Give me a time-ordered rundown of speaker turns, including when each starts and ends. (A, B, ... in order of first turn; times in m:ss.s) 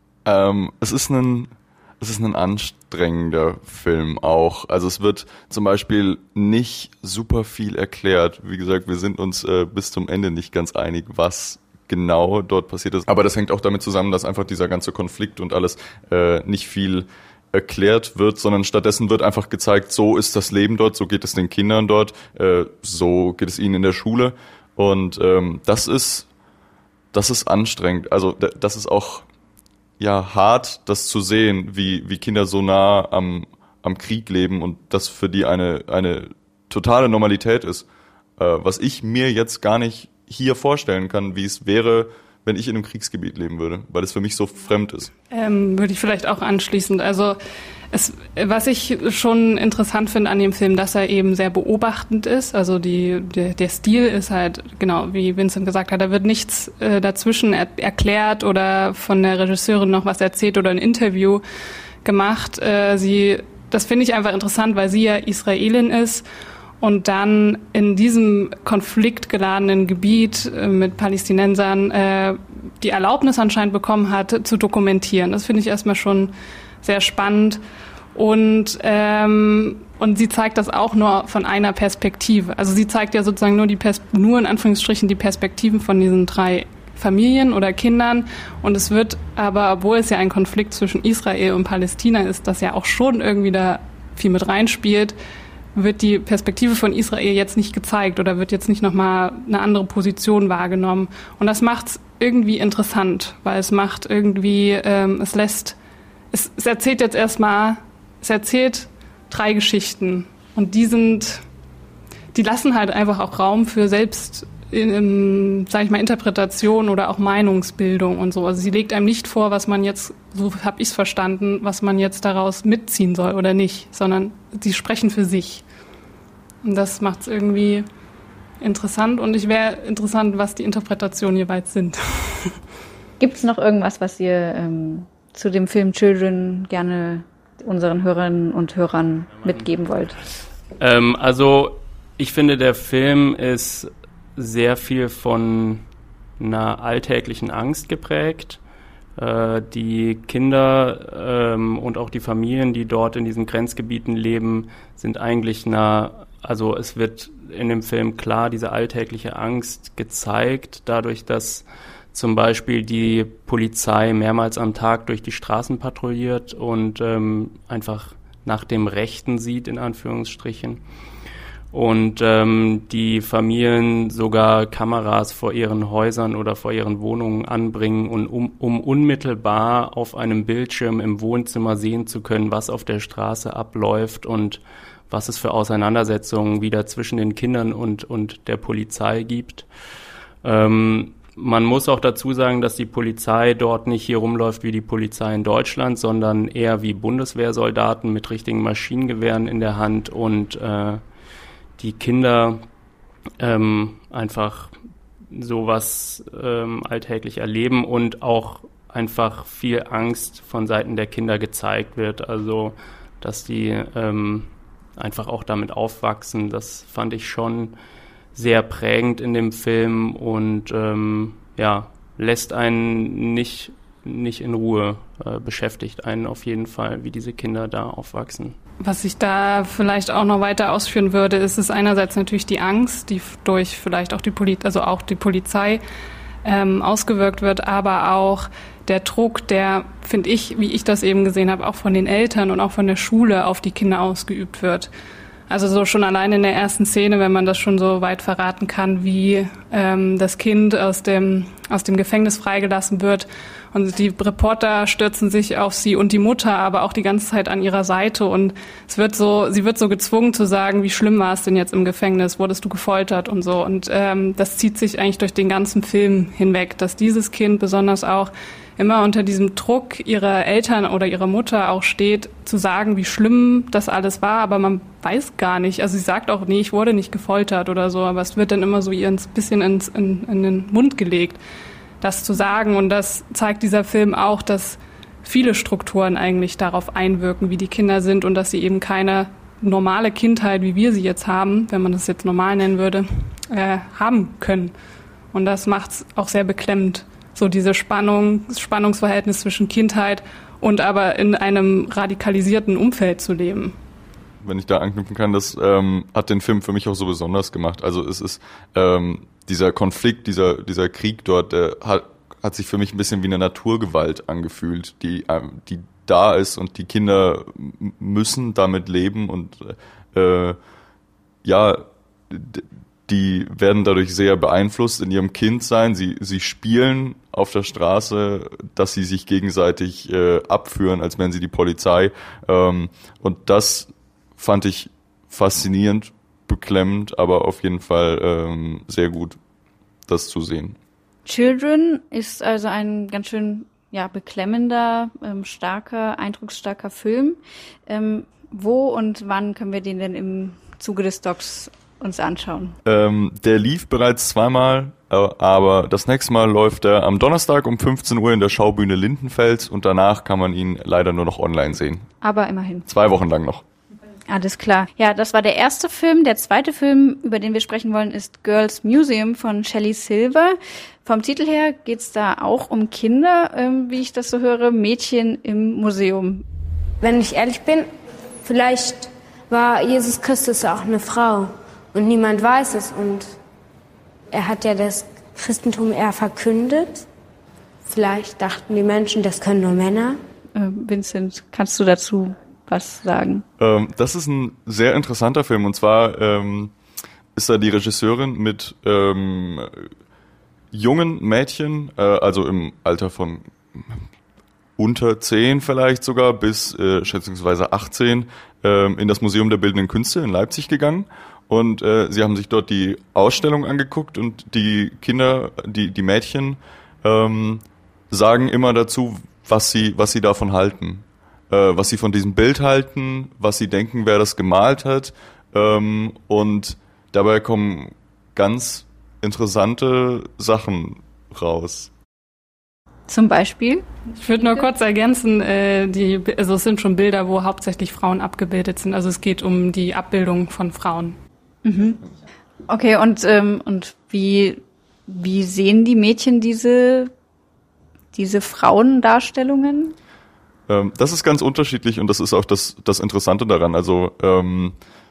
0:00.3-0:26.3 A
0:27.1-0:29.3 A
0:30.0-0:37.9 A
0:38.4-0:45.1 A
0:45.3-0:47.4 B
0:47.9-1:01.4 B
1:02.0-1:06.2 B
1:06.8-1:17.6 B
1:18.2-1:35.2 B
1:35.8-1:45.8 B
1:46.3-1:51.4 B
1:52.3-2:05.6 B
2:06.6-2:07.9 B
2:08.6-2:12.6 B
2:13.2-2:20.2 C
2:20.8-2:25.8 D
2:26.4-2:28.6 D
2:29.2-2:50.8 D
2:51.7-3:09.7 D
3:10.4-3:21.0 D
3:21.8-3:22.6 D
3:23.4-3:37.8 D
3:38.4-3:48.6 D
3:48.8-3:55.8 B
3:56.4-4:04.9 B
4:05.5-4:41.4 B
4:42.0-4:54.7 B
4:55.3-5:03.8 B
5:04.4-5:20.6 A
5:21.4-5:39.4 A
5:40.1-5:40.8 A
5:41.3-5:52.8 C
5:52.8-6:02.1 A
6:02.2-6:02.9 C
6:02.9-6:03.6 A
6:04.3-6:16.4 C
6:17.0-6:17.9 E
6:18.4-6:23.3 E
6:24.3-6:27.0 E
6:27.8-6:30.2 E
6:30.6-6:33.4 C
6:33.6-6:36.7 A
6:37.4-6:39.9 A
6:40.7-6:44.0 A
6:44.8-7:11.9 A
7:13.1-7:13.9 C
7:14.2-7:21.2 B
7:21.6-7:22.0 C
7:22.7-7:27.1 C
7:28.1-7:30.0 C
7:30.7-7:34.8 A